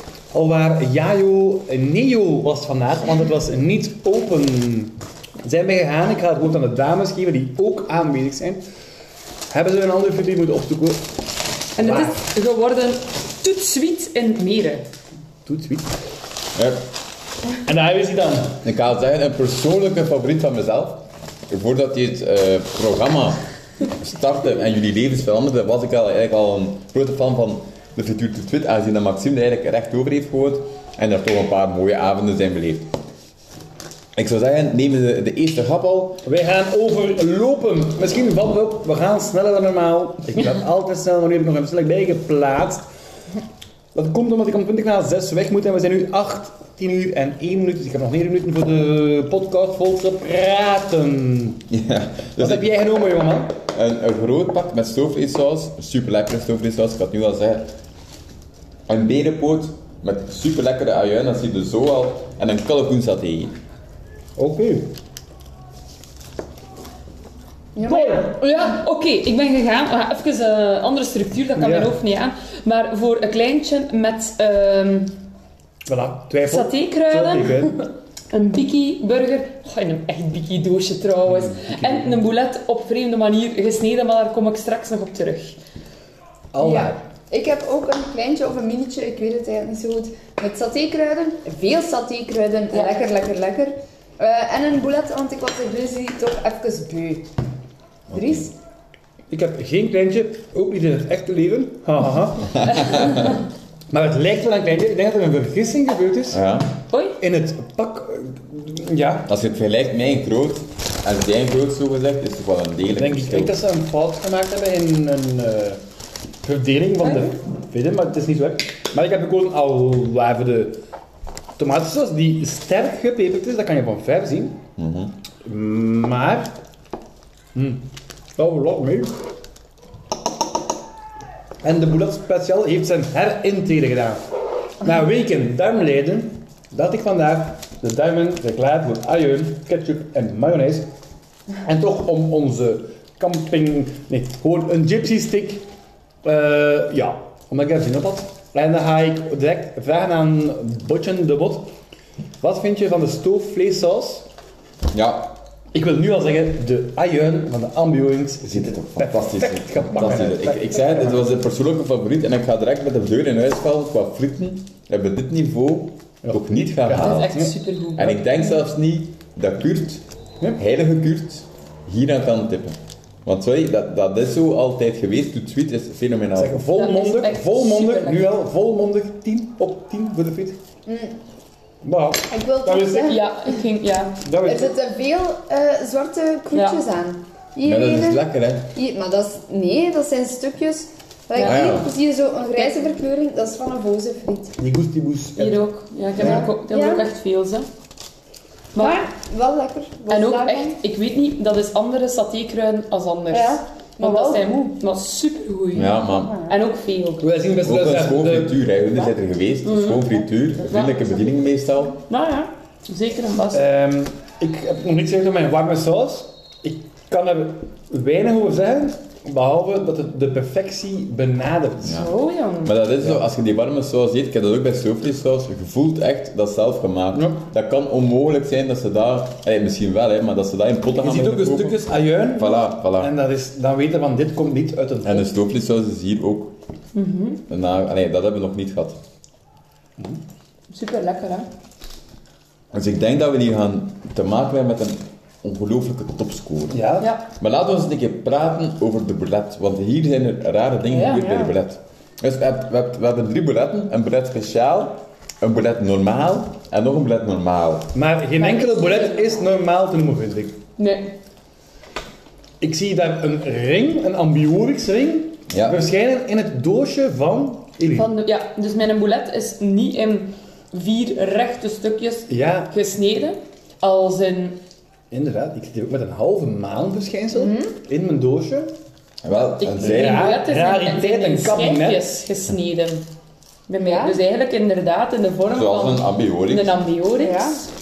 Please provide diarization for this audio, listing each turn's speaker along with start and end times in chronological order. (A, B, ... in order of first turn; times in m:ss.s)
0:00.3-0:08.6 A
0:09.5-0:11.0 A
0:11.8-0:14.8 B
0:11.8-0:12.2 A
0:15.4-0:15.9 A
0:17.6-0:18.6 A
0:18.6-0:32.9 C
0:34.2-0:36.2 C
0:36.2-0:42.8 A
0:43.9-0:51.6 A
0:51.7-0:52.7 C
0:52.4-0:53.5 A
0:53.7-0:57.7 C
0:58.9-1:03.5 C
1:04.4-1:04.9 A
1:07.7-1:08.2 D
1:07.8-1:15.2 B
1:07.9-1:08.2 A
1:11.6-1:12.0 A
1:15.8-1:17.9 A
1:16.4-1:17.7 B
1:18.3-1:25.6 B
1:21.3-1:22.2 A
1:26.5-1:27.0 A
1:26.6-1:37.2 D
1:38.1-1:38.5 D
1:38.1-1:38.4 C
1:39.3-1:42.6 A
1:42.5-1:43.4 C
1:43.9-1:46.4 A
1:46.3-1:46.7 C
1:46.9-1:47.2 B
1:47.2-1:49.3 A
1:49.3-1:53.6 C
1:52.9-1:55.8 A
1:56.4-2:00.8 A
2:01.6-2:04.6 A
2:04.8-2:05.2 C
2:05.4-2:06.5 A
2:07.5-2:09.1 A
2:11.6-2:14.2 A
2:14.8-2:20.9 A
2:21.6-2:25.7 A
2:26.2-2:31.7 A
2:32.4-2:34.3 A
2:34.9-2:35.4 C
2:35.7-2:41.3 A
2:38.4-2:47.4 C
2:46.2-2:47.5 A
2:47.0-2:48.2 B
2:48.0-2:50.0 C
2:50.6-2:56.7 C
2:56.3-3:00.6 A
2:56.7-2:58.4 B
3:00.8-3:01.2 D
3:01.8-3:03.1 A
3:02.3-3:03.5 D
3:03.0-3:04.2 B
3:04.2-3:04.7 A
3:04.4-3:14.5 D
3:06.5-3:06.8 B
3:07.6-3:08.7 C
3:11.4-3:11.7 B
3:11.4-3:11.9 C
3:12.6-3:12.8 B
3:14.6-3:15.6 A
3:15.4-3:17.7 B
3:16.1-3:16.5 A
3:16.2-3:17.1 D
3:18.7-3:19.0 B
3:18.8-3:20.8 D
3:20.1-3:27.3 B
3:23.3-3:24.8 D
3:25.7-3:26.3 C
3:26.0-3:26.6 D
3:27.2-3:28.6 A
3:27.6-3:32.0 C
3:29.6-3:31.0 B
3:32.1-3:33.6 B
3:33.5-3:42.0 A
3:41.8-3:42.1 C
3:41.9-3:42.7 B
3:42.6-3:53.1 C
3:47.1-3:47.4 A
3:51.0-3:55.2 A
3:55.0-3:56.5 C
3:56.9-3:57.4 B
3:57.5-3:59.0 C
4:00.7-4:01.5 B
4:02.7-4:06.8 C
4:06.7-4:07.1 A
4:07.0-4:07.3 B
4:07.4-4:17.9 C
4:11.0-4:11.5 D
4:17.9-4:20.6 A
4:18.4-4:19.4 B
4:18.4-4:19.3 D
4:20.8-4:21.1 B
4:22.6-4:28.1 A
4:25.5-4:25.8 C
4:27.9-4:34.6 B
4:32.3-4:32.8 A
4:35.1-4:38.7 A
4:37.3-4:37.8 D
4:39.2-4:40.3 C
4:39.6-4:43.1 B
4:39.8-4:42.2 A
4:43.7-4:47.7 B
4:43.8-4:44.2 D
4:45.5-4:46.8 C
4:47.2-4:47.6 D